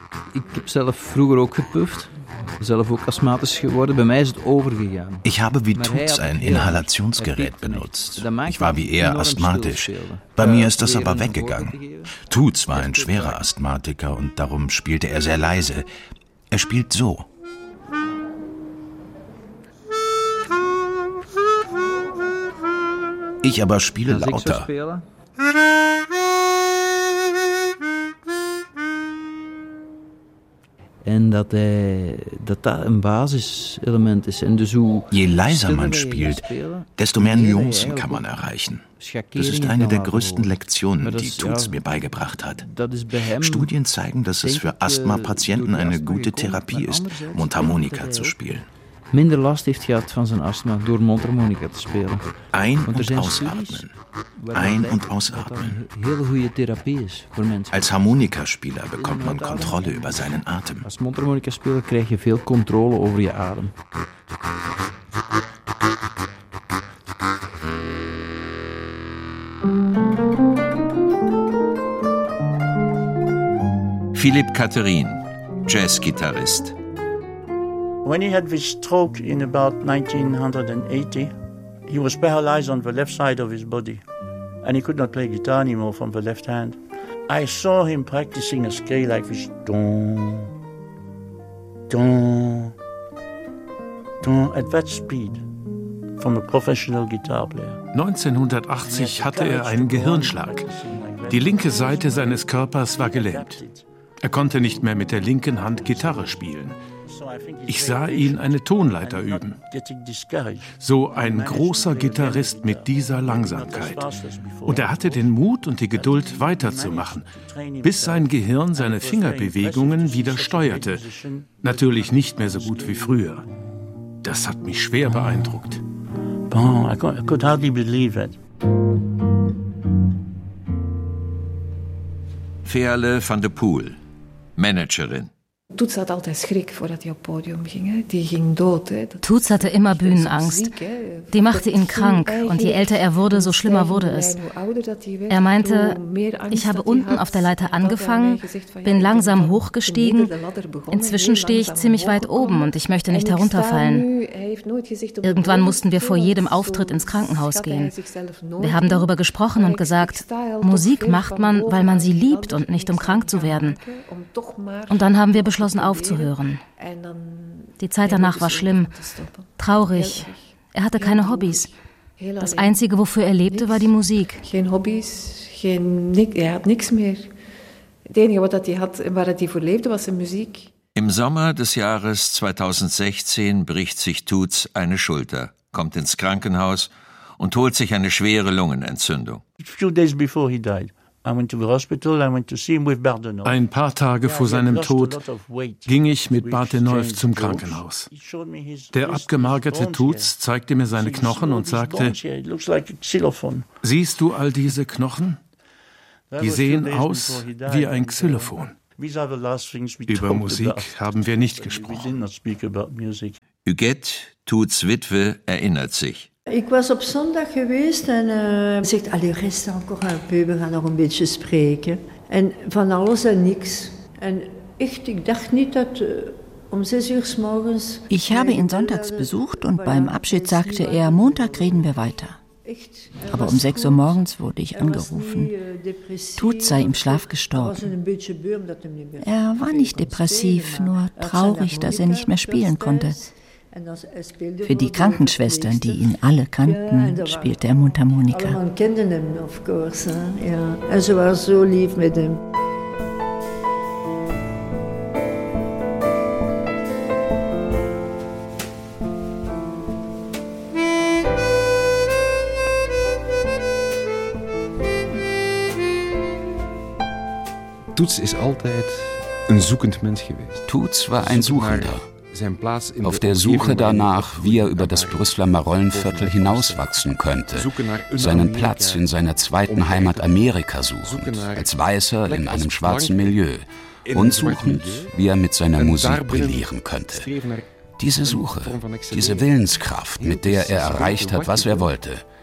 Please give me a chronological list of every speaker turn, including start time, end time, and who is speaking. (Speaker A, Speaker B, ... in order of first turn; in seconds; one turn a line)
Speaker A: 0.3-12.1
Speaker B: 5.2-15.9
Speaker A: 12.8-13.3
Speaker B: 16.5-17.3
Speaker B: 23.4-24.7
Speaker A: 24.1-25.0
Speaker A: 31.0-38.4
Speaker B: 35.1-48.6
Speaker A: 39.0-41.8
Speaker A: 42.6-43.7
Speaker A: 44.4-48.3
Speaker A: 49.1-53.9
Speaker B: 52.5-53.9
Speaker A: 54.4-57.9
Speaker B: 54.5-55.8
Speaker B: 57.7-60.9
Speaker A: 59.0-60.2
Speaker A: 60.8-63.7
Speaker C: 74.1-76.7
Speaker D: 78.0-81.3
Speaker D: 81.9-84.0
Speaker D: 84.6-90.5
Speaker D: 91.9-92.7
Speaker D: 94.2-95.4
Speaker D: 96.2-97.8
Speaker E: 97.9-100.7
Speaker D: 98.8-103.8
Speaker E: 101.3-103.6
Speaker E: 104.2-106.8
Speaker D: 105.5-106.4
Speaker D: 107.0-123.2
Speaker E: 107.7-109.6
Speaker E: 110.7-114.1
Speaker E: 114.6-121.0
Speaker E: 121.6-123.4
Speaker E: 124.2-125.8
Speaker D: 126.5-128.4
Speaker C: 132.6-134.0
Speaker C: 134.6-135.3
Speaker F: 135.7-172.9
Speaker G: 139.2-144.4
Speaker G: 145.3-150.3
Speaker G: 150.9-154.1
Speaker G: 155.2-157.9
Speaker G: 158.6-163.8
Speaker G: 164.9-166.6
Speaker G: 167.8-169.0
Speaker G: 169.6-171.7
Speaker G: 172.4-174.4
Speaker F: 173.4-177.3
Speaker F: 178.1-180.7
Speaker C: 180.9-189.4
Speaker D: 189.6-193.6
Speaker E: 193.4-195.2
Speaker D: 194.2-200.3
Speaker E: 195.8-198.1
Speaker E: 198.9-202.2
Speaker D: 200.8-203.7
Speaker E: 203.8-205.4
Speaker D: 206.3-213.4
Speaker E: 206.4-208.8
Speaker E: 210.1-212.2
Speaker C: 213.6-216.3
Speaker H: 216.5-232.0
Speaker I: 228.1-232.4
Speaker H: 232.6-252.4
Speaker I: 233.3-235.5
Speaker I: 236.4-237.9
Speaker I: 239.2-243.2
Speaker I: 244.6-248.6
Speaker J: 267.9-277.0
Speaker K: 270.7-272.1
Speaker K: 273.0-287.3
Speaker J: 277.5-279.1
Speaker J: 279.7-280.4
Speaker J: 281.0-283.4
Speaker J: 284.0-285.1
Speaker J: 285.7-289.6
Speaker K: 288.0-292.2
Speaker J: 290.1-291.9